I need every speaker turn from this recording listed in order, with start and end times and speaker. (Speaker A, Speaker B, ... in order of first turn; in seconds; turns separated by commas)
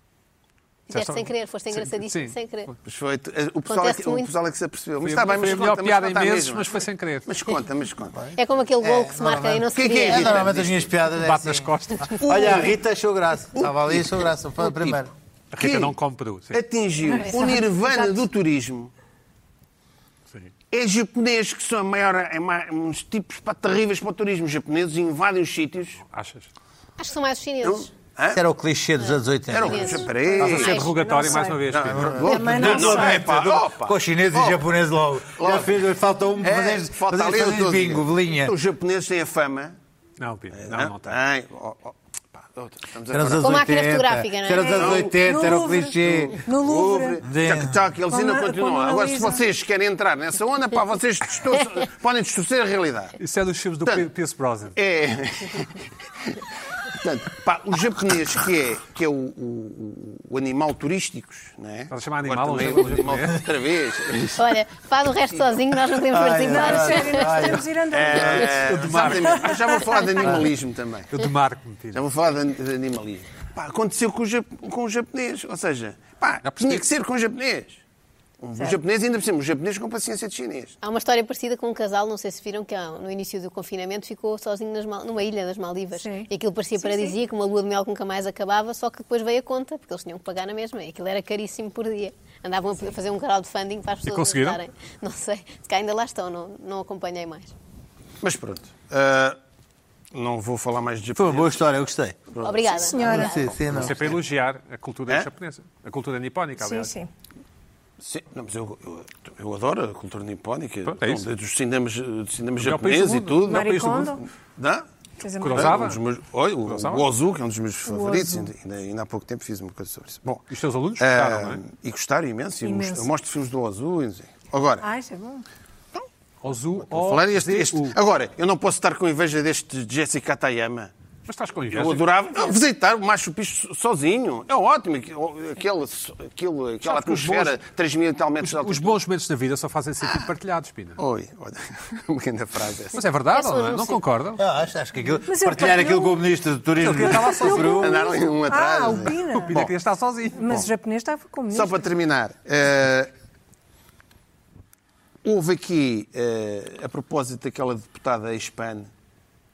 Speaker A: 0.9-2.7, Speaker B: 0.9-2.7, Speaker C: 2.8-6.7, Speaker A: 3.7-4.3, Speaker B: 5.0-7.3, Speaker C: 7.2-8.2, Speaker A: 8.4-10.4, Speaker D: 8.9-15.1, Speaker C: 9.7-10.9, Speaker B: 11.2-12.2, Speaker C: 13.6-14.1, Speaker C: 14.6-15.0, Speaker B: 15.5-16.6, Speaker C: 15.6-15.9, Speaker C: 16.5-18.9, Speaker E: 17.1-17.6, Speaker A: 17.1-17.6, Speaker C: 20.7-26.0, Speaker B: 26.1-26.5, Speaker A: 27.0-27.9, Speaker C: 27.6-28.4, Speaker D: 28.3-30.0, Speaker A: 29.0-30.9, Speaker C: 29.5-30.9, Speaker E: 29.8-33.3, Speaker B: 30.4-32.2, Speaker C: 31.7-34.6, Speaker D: 31.8-38.5, Speaker C: 35.3-35.8, Speaker C: 36.4-39.8, Speaker B: 40.2-41.1, Speaker C: 40.5-43.6, Speaker D: 43.1-46.4, Speaker A: 43.4-45.0, Speaker E: 44.6-47.2, Speaker C: 44.7-53.2, Speaker D: 47.2-47.8, Speaker E: 48.1-49.4, Speaker B: 53.2-54.8, Speaker C: 54.7-64.6, Speaker B: 61.9-63.4, Speaker A: 64.3-67.6, Speaker D: 66.1-67.7, Speaker E: 66.5-69.8, Speaker C: 67.9-71.1, Speaker B: 68.5-69.6, Speaker B: 71.1-72.0, Speaker C: 71.9-77.8, Speaker B: 76.4-76.9, Speaker C: 78.4-80.8, Speaker A: 80.8-97.5, Speaker E: 86.0-87.2, Speaker B: 94.0-94.6, Speaker C: 98.2-99.4, Speaker C: 100.1-101.6, Speaker D: 101.2-102.2, Speaker C: 102.3-102.9, Speaker A: 102.4-103.6, Speaker E: 102.7-103.4, Speaker D: 103.0-104.0, Speaker B: 103.7-106.9, Speaker C: 103.7-104.1, Speaker E: 106.6-107.1, Speaker C: 108.0-114.8, Speaker B: 110.9-111.3, Speaker B: 112.6-114.0, Speaker E: 113.4-114.2, Speaker E: 115.2-115.8, Speaker B: 115.4-116.0, Speaker C: 115.5-124.8, Speaker B: 116.7-117.0, Speaker E: 117.9-118.5, Speaker B: 120.5-121.6, Speaker E: 122.6-123.1, Speaker E: 124.8-125.4, Speaker B: 126.4-128.0, Speaker C: 126.8-130.9, Speaker B: 131.3-132.1, Speaker C: 131.7-139.0, Speaker B: 136.8-137.6, Speaker B: 138.4-141.0, Speaker C: 140.0-140.3, Speaker C: 141.0-143.0, Speaker B: 142.9-144.4, Speaker A: 143.3-144.0, Speaker D: 144.4-147.9, Speaker E: 145.2-146.2, Speaker B: 146.8-147.9, Speaker E: 147.0-149.6, Speaker C: 147.7-149.7, Speaker B: 149.3-150.7, Speaker E: 150.4-151.8, Speaker C: 151.5-153.1, Speaker C: 155.2-158.9